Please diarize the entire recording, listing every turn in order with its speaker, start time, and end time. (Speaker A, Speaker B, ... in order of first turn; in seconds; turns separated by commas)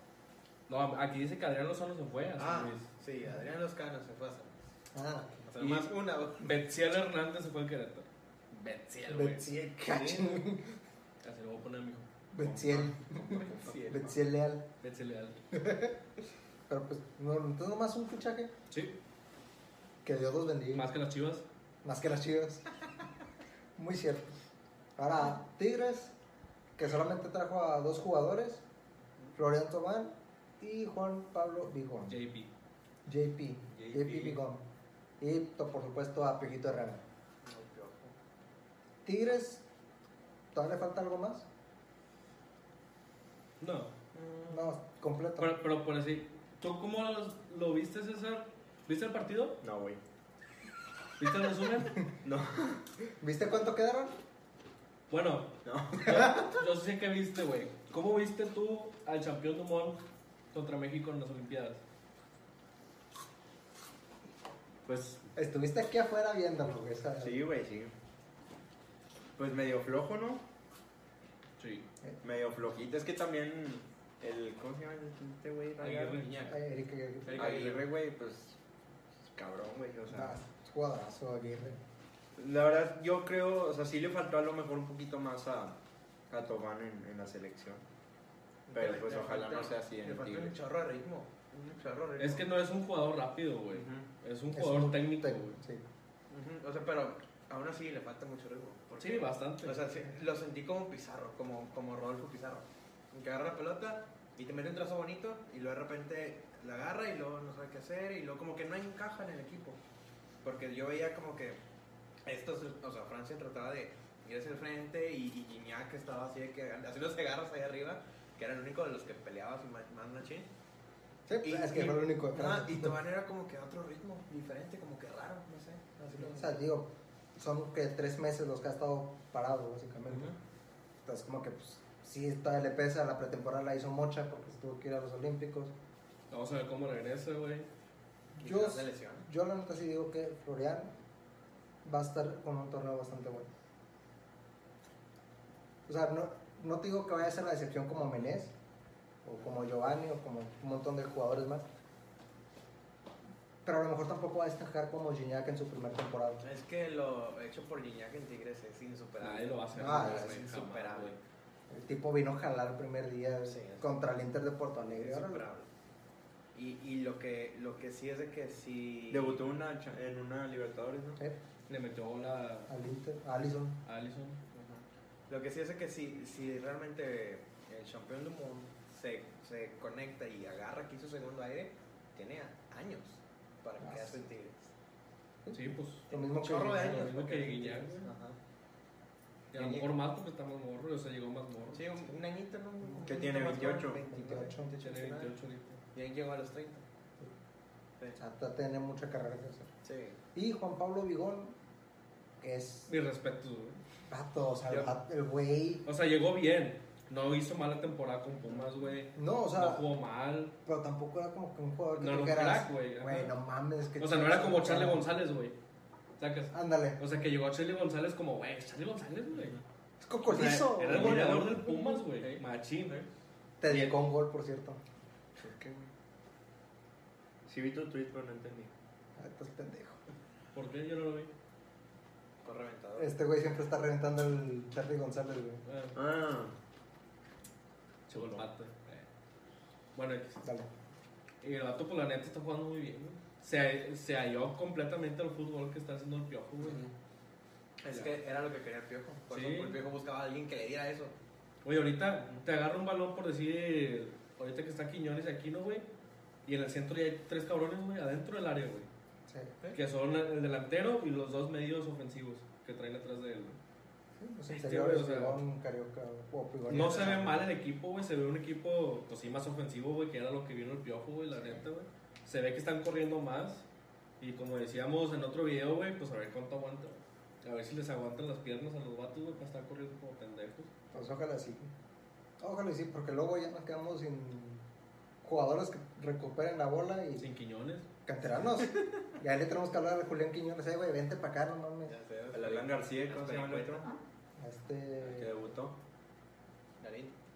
Speaker A: 0.7-2.9, Speaker B: 2.4-4.7, Speaker C: 4.9-5.5, Speaker B: 5.5-6.5, Speaker A: 5.6-10.4, Speaker C: 9.1-10.8, Speaker A: 11.2-12.1, Speaker C: 12.3-14.7, Speaker D: 12.4-14.2, Speaker B: 13.7-14.0, Speaker A: 14.8-15.4, Speaker C: 15.5-15.9, Speaker C: 16.7-18.5, Speaker A: 18.7-19.0, Speaker C: 20.0-20.9, Speaker A: 20.7-21.4, Speaker C: 21.8-22.7, Speaker C: 23.8-24.3, Speaker C: 25.0-26.1, Speaker C: 26.8-28.6, Speaker C: 29.4-32.2, Speaker A: 32.1-32.5, Speaker C: 33.1-34.6, Speaker D: 33.8-34.4, Speaker C: 35.2-37.0, Speaker B: 37.4-38.1, Speaker C: 39.0-39.6, Speaker C: 40.5-41.5, Speaker A: 43.6-43.9, Speaker B: 44.1-44.7, Speaker C: 44.5-45.6, Speaker A: 45.4-49.6, Speaker D: 49.6-50.0, Speaker A: 51.2-52.0, Speaker D: 52.2-52.8, Speaker C: 53.2-54.1, Speaker A: 55.1-60.0, Speaker D: 55.6-56.4, Speaker A: 60.5-61.8, Speaker A: 64.9-65.2, Speaker C: 65.4-67.4, Speaker D: 67.2-67.9, Speaker D: 69.4-70.4, Speaker A: 71.6-71.9, Speaker D: 72.2-76.2, Speaker A: 75.8-76.5, Speaker B: 76.2-76.6, Speaker C: 76.5-77.5, Speaker B: 77.2-77.9, Speaker D: 77.3-78.6, Speaker D: 79.3-80.4, Speaker C: 80.1-81.8, Speaker D: 82.3-85.8, Speaker D: 86.3-87.8, Speaker B: 88.7-92.5, Speaker D: 88.7-90.5, Speaker A: 92.2-95.6, Speaker B: 93.7-94.0, Speaker C: 94.5-95.9, Speaker B: 96.3-109.8, Speaker A: 99.0-99.8, Speaker B: 110.4-111.6, Speaker B: 112.3-120.5, Speaker C: 121.3-123.0, Speaker B: 121.4-126.6, Speaker C: 126.0-130.3, Speaker B: 130.1-130.3, Speaker C: 131.1-135.7, Speaker A: 136.3-137.7, Speaker B: 138.4-139.3, Speaker C: 138.4-140.9, Speaker C: 141.8-143.5, Speaker C: 145.9-148.5, Speaker C: 149.2-151.7, Speaker C: 153.7-156.4, Speaker B: 156.4-161.2, Speaker A: 159.2-161.2, Speaker C: 159.8-160.4, Speaker C: 161.7-165.4, Speaker B: 163.5-164.0, Speaker B: 164.9-165.7, Speaker B: 166.6-169.5, Speaker D: 169.1-171.2, Speaker A: 171.7-172.7, Speaker C: 172.7-173.8, Speaker A: 173.9-174.4, Speaker B: 174.5-184.7, Speaker C: 183.8-184.2, Speaker C: 185.4-187.1, Speaker A: 185.5-186.1, Speaker B: 186.1-188.4, Speaker A: 186.6-188.1, Speaker A: 189.5-191.8, Speaker B: 189.5-189.9, Speaker B: 191.7-195.3, Speaker C: 192.9-194.7, Speaker D: 193.0-194.0, Speaker A: 194.8-195.8, Speaker B: 195.9-196.8, Speaker C: 198.2-199.7, Speaker B: 199.8-200.2, Speaker C: 200.3-201.6, Speaker C: 202.4-202.9, Speaker A: 202.9-203.8, Speaker C: 204.1-205.9, Speaker A: 205.9-210.5, Speaker C: 209.2-209.9, Speaker C: 210.7-215.1, Speaker A: 212.0-213.3, Speaker A: 214.0-215.6, Speaker A: 216.2-219.6, Speaker C: 216.5-217.0, Speaker C: 220.0-222.0, Speaker A: 220.3-223.0, Speaker D: 220.9-221.6, Speaker C: 223.6-224.8, Speaker D: 225.4-225.9, Speaker D: 227.5-228.7, Speaker C: 229.2-230.0, Speaker A: 230.5-231.3, Speaker B: 232.4-233.1, Speaker C: 233.0-235.6, Speaker A: 235.7-236.0, Speaker D: 235.9-236.6, Speaker A: 238.1-239.1, Speaker A: 239.9-240.4, Speaker C: 240.4-240.7, Speaker A: 241.4-246.8, Speaker B: 246.6-246.9, Speaker B: 247.8-251.2, Speaker A: 249.3-249.8, Speaker A: 251.6-255.9, Speaker A: 256.5-258.9, Speaker C: 259.3-259.6, Speaker A: 259.7-263.6, Speaker C: 264.2-267.4, Speaker A: 264.5-265.4, Speaker A: 266.7-273.6, Speaker A: 274.2-280.7, Speaker C: 280.9-281.7, Speaker C: 282.4-284.6, Speaker C: 285.2-287.3, Speaker A: 287.2-287.9, Speaker C: 288.1-291.9, Speaker B: 291.9-294.0, Speaker D: 292.3-293.9, Speaker C: 294.4-295.5, Speaker D: 295.0-295.8, Speaker B: 296.8-297.1